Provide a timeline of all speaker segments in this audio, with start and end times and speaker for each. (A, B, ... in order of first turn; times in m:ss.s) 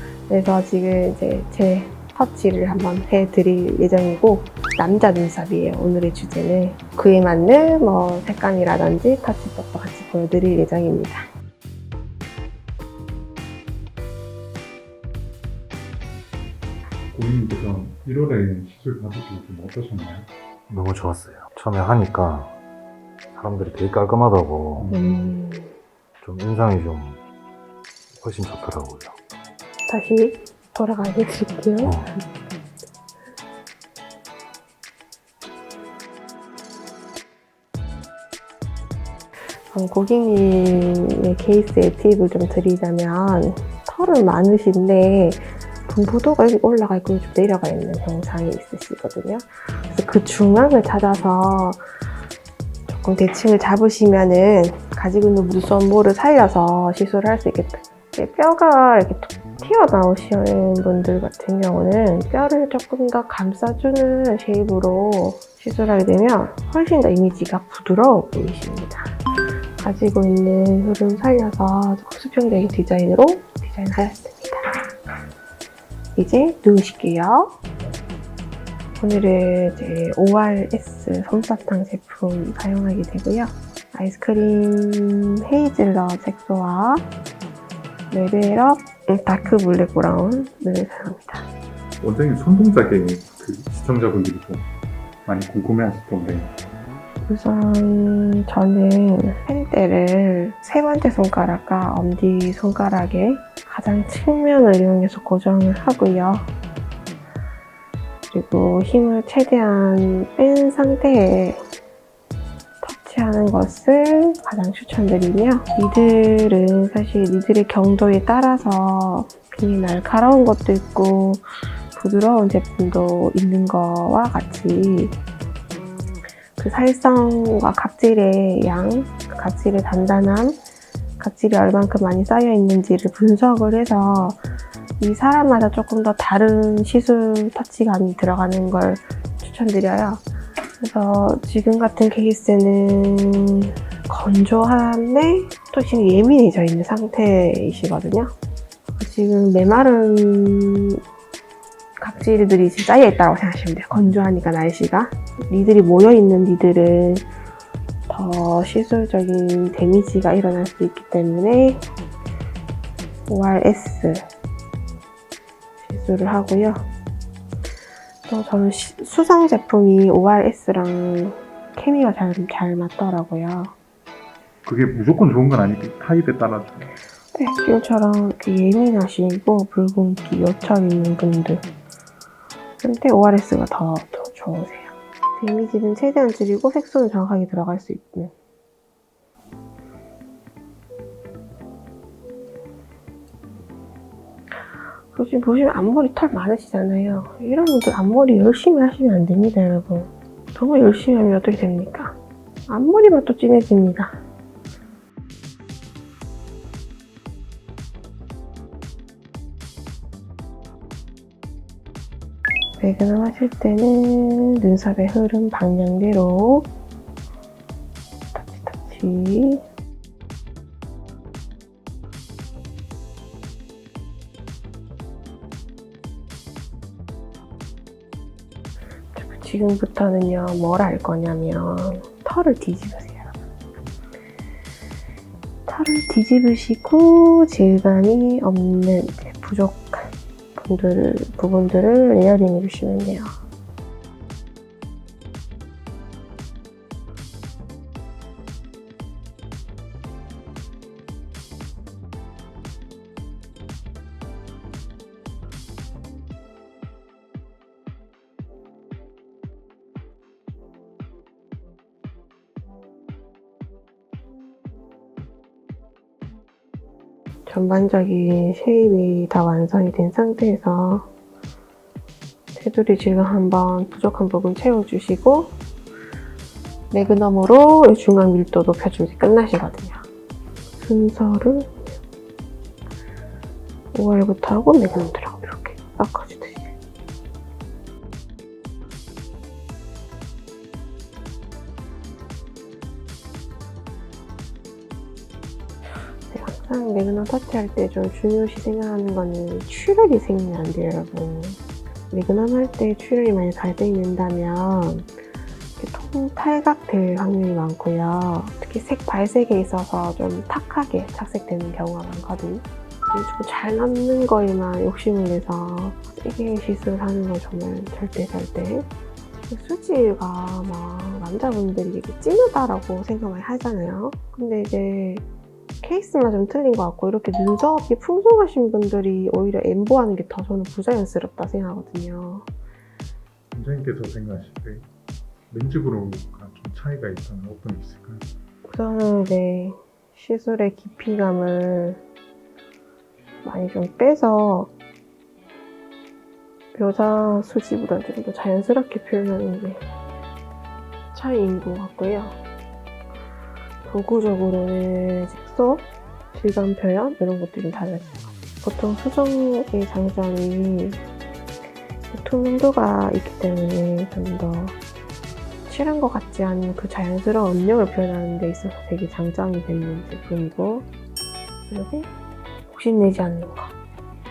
0:00.3-0:11.2 A
0:17.1-0:20.3 B
0:20.7-0:22.6 C
0:23.3-0:25.1 C
0:24.8-0:25.0 B
0:24.9-0:25.7 A
0:26.2-0:27.2 C
0:28.1-0:29.2 C
0:29.9-0:32.1 A
0:31.8-0:32.1 C
0:39.7-0:51.8 A
0:52.9-1:09.1 A
1:09.8-1:14.7 A
1:16.2-1:17.6 A
1:19.0-1:27.0 A
1:28.1-1:31.5 A
1:32.0-1:34.7 B
1:35.2-1:36.6 B
1:37.2-1:46.5 A
1:48.3-1:51.6 A
1:52.8-2:05.1 A
2:06.6-2:10.6 A
2:11.2-2:14.4 A
2:15.0-2:20.2 A
2:20.8-2:28.3 A
2:29.0-2:31.0 A
2:32.0-2:37.2 A
2:38.1-2:41.8 A
2:43.3-2:44.2 A
2:45.8-2:46.9 A
2:48.3-2:53.8 A
2:54.6-2:56.9 B
2:57.3-3:01.6 A
3:02.8-3:08.3 A
3:15.1-3:24.2 A
3:32.8-3:36.7 A
3:38.3-3:39.6 A
3:49.1-3:53.4 A
3:55.6-4:03.3 A
4:27.4-4:31.1 A
4:32.5-4:35.5 A
4:36.9-4:40.0 A
4:40.8-4:41.8 A
4:43.9-4:46.7 A
4:56.3-5:01.6 A
5:02.1-5:05.1 A
5:05.8-5:18.9 A
5:19.5-5:25.2 A
5:25.8-5:32.5 A
5:33.5-5:34.9 B
5:35.5-5:38.2 B
5:38.6-5:42.0 A
5:43.4-5:44.7 A
5:46.7-5:49.8 A
5:51.1-5:52.4 A
5:53.8-6:01.0 A
6:02.1-6:04.8 A
6:05.6-6:10.9 A
6:11.7-6:12.1 A
6:12.7-6:13.7 A